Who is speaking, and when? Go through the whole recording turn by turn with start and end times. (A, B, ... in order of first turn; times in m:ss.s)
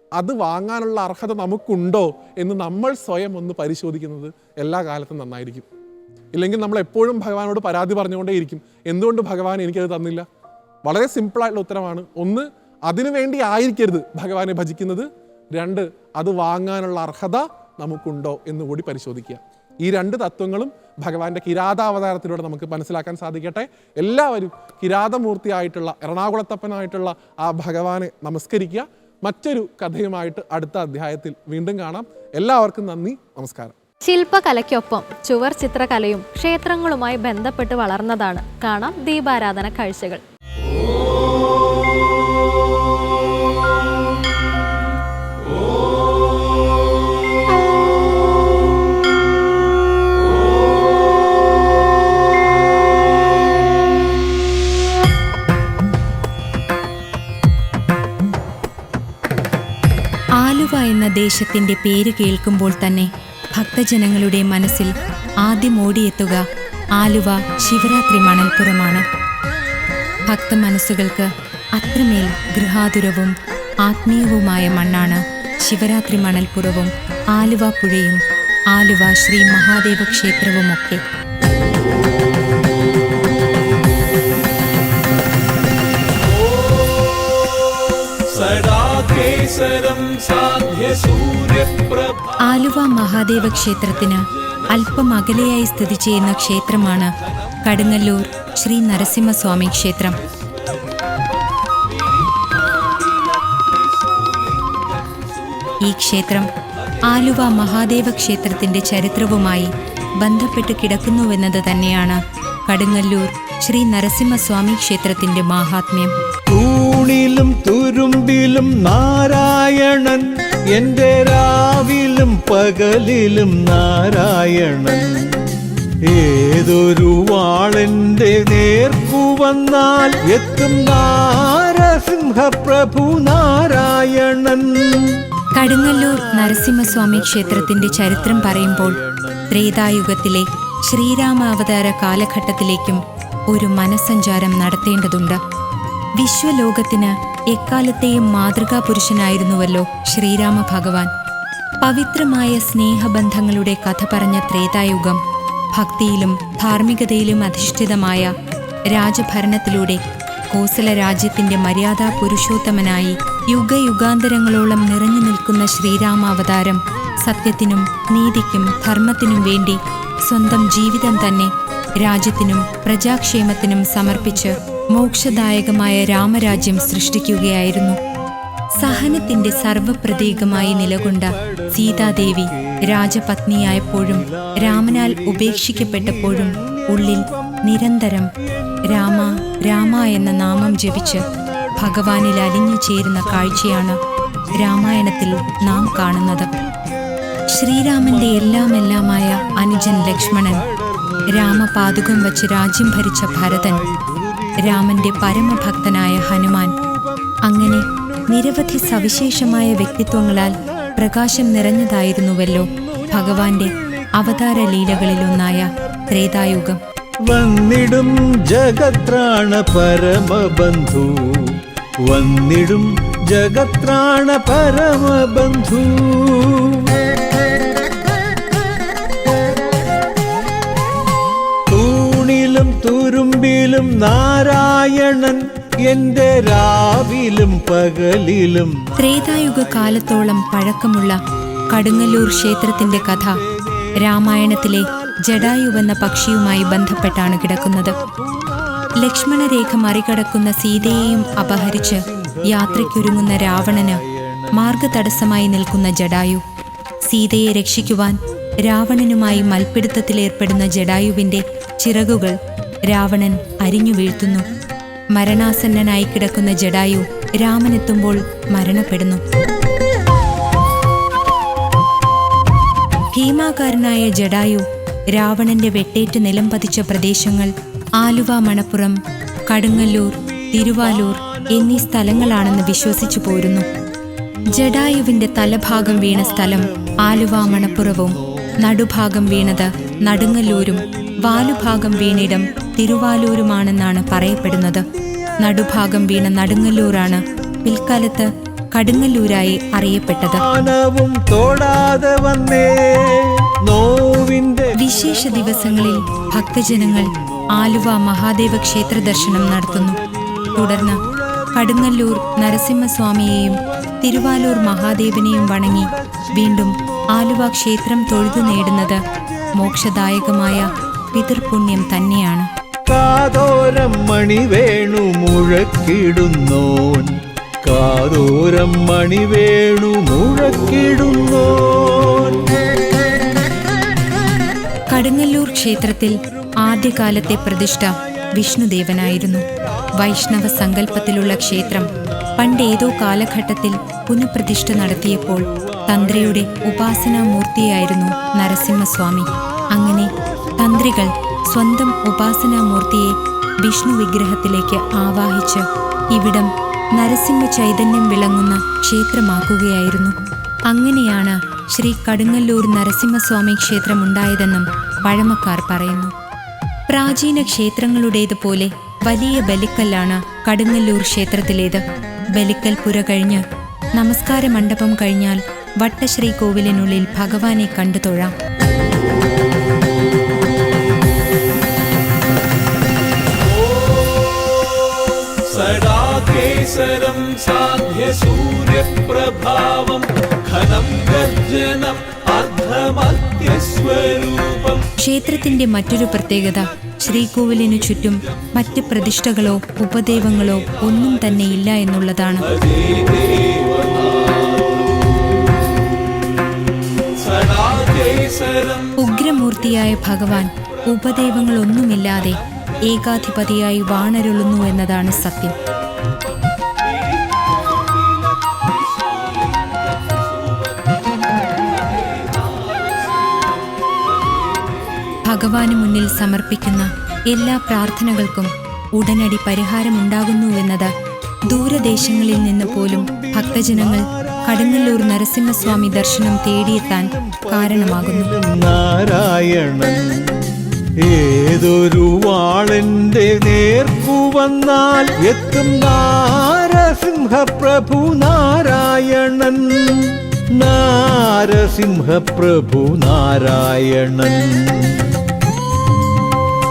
0:00.2-0:05.7 A
0:06.3-0:10.3 A
0:10.8-0:33.8 A
0:34.0-0:40.2 B
1:00.4-1:04.9 C
1:05.4-1:06.4 C
1:07.0-1:09.0 C
1:10.3-1:18.2 C
1:18.7-1:21.0 C
1:26.2-1:32.3 D
1:32.4-1:37.1 C
1:34.6-1:35.5 D
1:37.5-1:38.1 D
1:37.6-1:40.2 C
1:40.4-1:41.0 D
1:41.9-1:45.8 D
1:45.8-1:46.5 C
1:46.9-1:48.5 D
1:47.1-1:56.1 C
1:56.5-2:05.3 E
2:06.0-2:19.6 E
2:15.6-2:19.0 C
2:19.5-2:25.4 C
2:26.2-2:31.1 C
2:31.8-2:35.2 C
2:35.8-2:38.3 C
2:38.9-2:40.0 C
2:40.5-2:58.0 C
2:54.1-2:58.0 E
2:58.8-3:08.3 C
2:58.8-3:03.1 E
3:03.9-3:07.6 E
3:08.4-3:09.8 E
3:08.9-3:11.2 C
3:10.5-3:12.5 E
3:11.8-3:14.0 C
3:13.1-3:22.5 E
3:14.6-3:16.5 C
3:17.5-3:20.6 C
3:21.3-3:23.8 C
3:23.1-3:31.4 E
3:24.6-3:26.8 C
3:27.4-3:36.8 C
3:32.6-3:36.0 E
3:37.3-3:46.9 E
3:51.7-4:00.6 E
3:59.0-4:01.2 C
4:01.2-4:09.8 E
4:01.7-4:03.4 C
4:04.0-4:08.0 C
4:09.0-4:14.0 C
4:10.8-4:14.8 E
4:14.5-4:16.4 C
4:17.1-4:22.3 C
4:22.9-4:24.5 C
4:25.1-4:29.2 C
4:33.1-4:39.0 C
4:39.5-4:43.7 C
4:39.7-4:43.5 E
4:44.5-4:53.1 E
4:44.5-4:54.9 C
4:54.5-4:58.0 E
4:55.4-5:00.4 C
4:58.9-4:59.4 E
5:00.2-5:12.6 E
5:04.8-5:10.0 C
5:10.6-5:11.0 C
5:11.5-5:19.0 C
5:13.5-5:22.0 E
5:19.6-5:22.5 C
5:22.9-5:32.5 E
5:34.9-5:39.4 C
5:36.3-5:43.2 E
5:40.0-6:00.2 C
5:44.7-5:47.4 E
5:49.8-5:51.1 E
6:00.7-6:06.1 C
6:06.9-6:11.8 C
6:12.4-6:13.4 C
6:14.0-6:18.3 C
6:23.4-6:34.8 D
6:35.0-6:42.5 C
6:37.1-6:37.7 E
6:40.9-6:41.6 D
6:42.4-6:45.3 D
6:47.2-6:49.0 D
6:49.0-6:55.6 C
6:52.5-6:52.8 D
6:55.4-7:05.2 D
7:05.2-7:10.9 C
7:11.5-7:18.3 C
7:11.6-7:20.4 E
7:21.0-7:35.1 E